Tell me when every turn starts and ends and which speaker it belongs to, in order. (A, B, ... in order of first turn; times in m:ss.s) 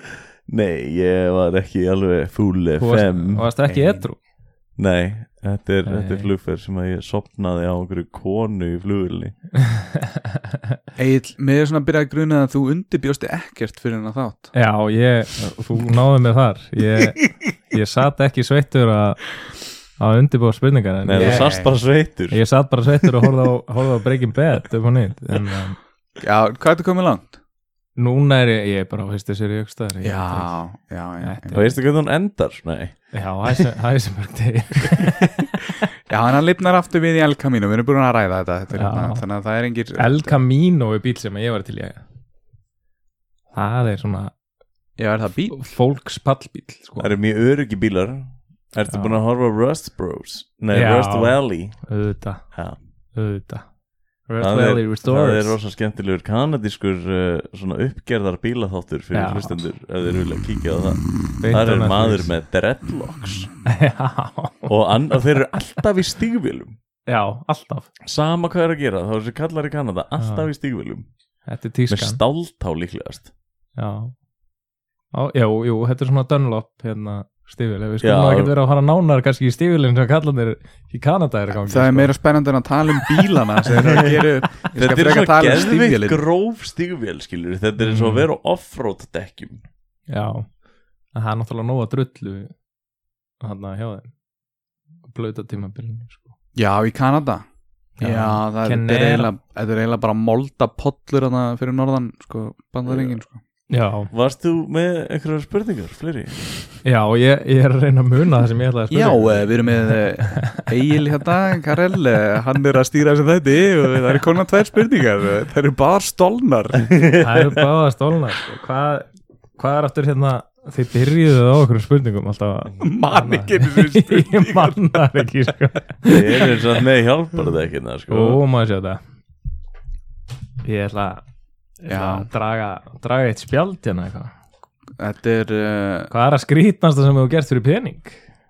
0:00.5-0:03.5 A
0:02.8-0:04.2 B
0:03.6-0:04.1 C
0:04.8-0:09.4 A
0:05.8-0:06.3 B
0:09.6-0:10.6 B
0:11.0-0:14.5 C
0:14.5-0:19.3 B
0:20.0-0:21.5 B
0:21.0-0:22.4 A
0:21.2-0:21.7 C
0:22.3-0:25.8 B
0:26.2-0:27.4 C
0:28.0-0:30.6 B
0:30.0-0:31.7 C
0:31.2-0:31.7 B
0:31.5-0:33.1 A
0:33.1-0:35.4 B
0:36.1-0:40.4 C
0:38.7-0:39.2 B
0:40.0-0:42.0 B
0:43.5-0:44.3 B
0:45.0-0:45.6 C
0:45.5-0:47.1 B
0:47.0-0:51.8 A
0:48.9-0:49.2 B
0:50.7-0:52.5 B
0:52.5-0:52.8 A
0:53.1-0:53.7 B
0:54.3-0:55.6 B
0:54.4-1:03.6 A
0:59.1-0:59.6 B
1:01.4-1:02.3 B
1:03.6-1:04.7 B
1:04.7-1:06.8 A
1:07.1-1:07.9 B
1:08.0-1:11.0 A
1:10.2-1:10.5 B
1:11.5-1:12.2 B
1:11.9-1:13.3 A
1:13.8-1:14.1 B
1:15.1-1:22.1 B
1:18.0-1:18.5 A
1:21.7-1:26.2 C
1:23.8-1:29.6 A
1:27.8-1:28.3 B
1:30.1-1:30.5 B
1:31.1-1:32.5 B
1:33.4-1:34.1 B
1:35.0-1:36.3 B
1:36.6-1:37.4 C
1:38.0-1:39.3 B
1:38.0-1:43.4 C
1:42.9-1:43.2 A
1:43.7-1:44.1 B
1:44.1-1:46.4 A
1:46.8-1:50.7 B
1:48.9-1:56.9 C
1:56.9-1:57.5 A
1:57.2-2:06.5 B
2:02.8-2:05.0 C
2:06.0-2:08.4 A
2:08.1-2:09.0 B
2:10.6-2:11.2 B
2:11.8-2:14.3 B
2:11.9-2:12.3 C
2:15.0-2:16.1 C
2:16.1-2:18.2 B